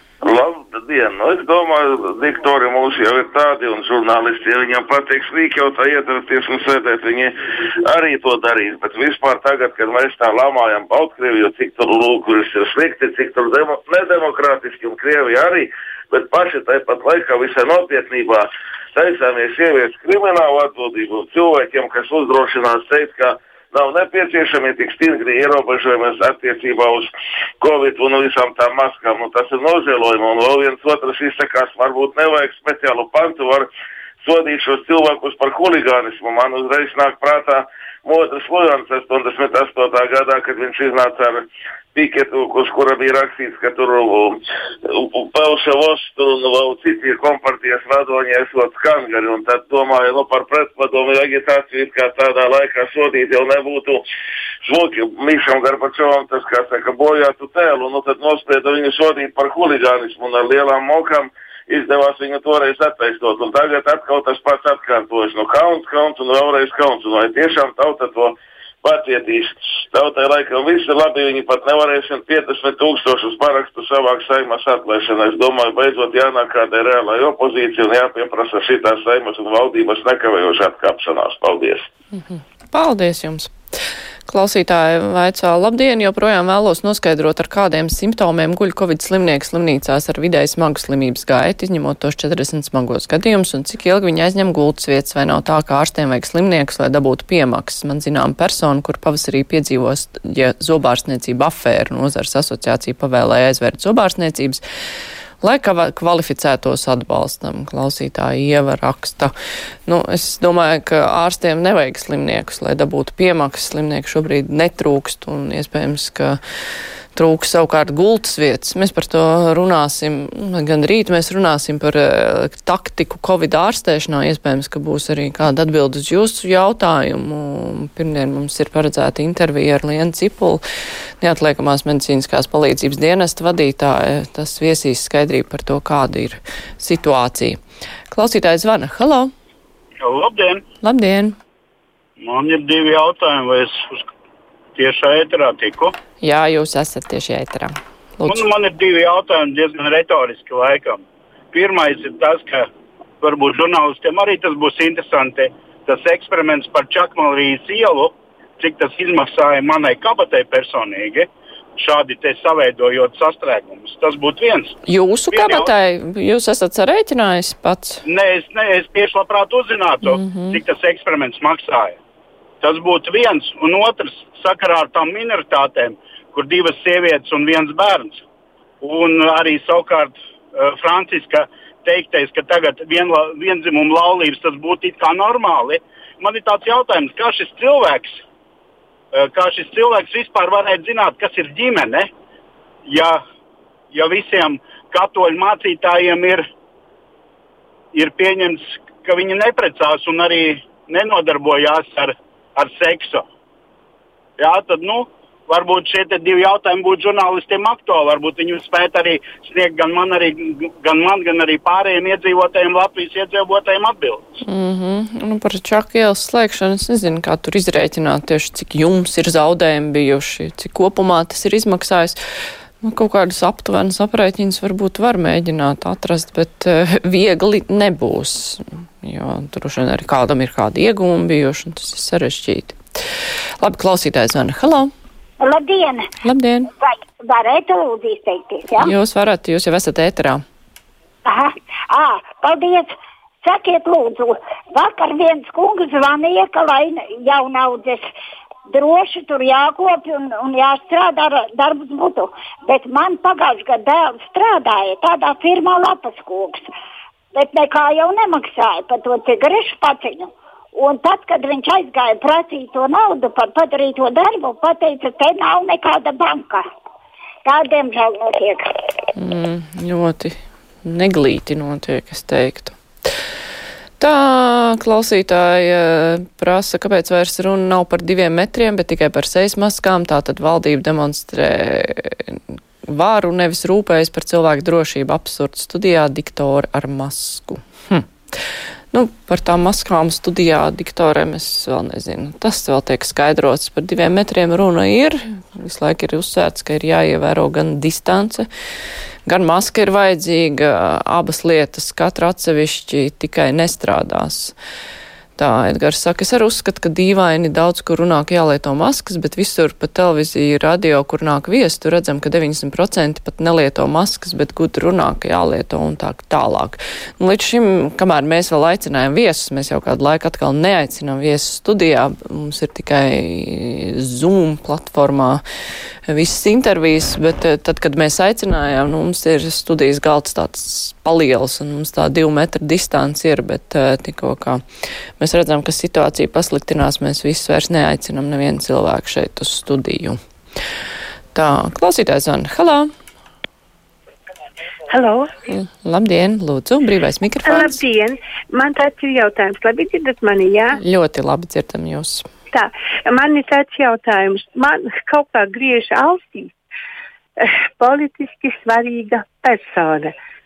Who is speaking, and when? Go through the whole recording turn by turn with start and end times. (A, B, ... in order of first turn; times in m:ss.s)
0:00.2-0:33.7 A
0:34.2-0:54.0 A
0:54.6-1:21.9 A
1:22.2-1:23.5 B
1:24.3-1:44.6 B
1:45.4-1:49.3 B
1:49.9-1:56.4 B
1:57.1-2:10.6 B
2:11.2-2:17.6 B
2:18.1-2:19.3 B
2:20.0-2:20.6 C
2:20.8-2:21.4 B
2:22.2-2:24.1 C
2:24.8-2:25.9 C
2:26.2-2:28.4 B
2:28.3-2:32.6 C
2:33.2-2:44.7 C
2:44.8-2:48.0 B
2:45.3-2:45.7 C
2:48.0-2:52.0 C
2:50.1-2:50.6 B
2:52.6-2:58.2 C
2:58.8-3:08.2 C
3:09.1-3:12.1 C
3:12.8-3:13.2 C
3:13.9-3:16.4 C
3:17.9-3:23.2 C
3:24.4-3:34.2 C
3:34.4-3:42.2 B
3:42.8-3:52.8 B
3:53.6-3:54.9 B
3:55.4-3:56.0 D
3:56.2-3:56.7 B
3:56.8-3:58.9 D
3:58.8-4:00.4 B
4:01.2-4:02.9 D
4:03.4-4:08.0 D
4:08.7-4:16.6 D
4:17.3-4:26.6 D
4:27.4-4:28.7 D
4:29.2-4:32.8 B
4:34.0-4:48.0 B
4:48.9-4:58.5 B
4:59.2-5:04.5 B
5:05.4-5:25.4 B
5:26.1-5:34.6 B
5:35.2-5:40.2 B
5:41.3-5:42.9 B
5:44.9-5:45.3 E
5:45.5-5:47.8 B
5:47.5-5:50.8 E
5:50.8-5:52.2 B
5:52.5-5:56.5 E
5:57.4-6:00.1 E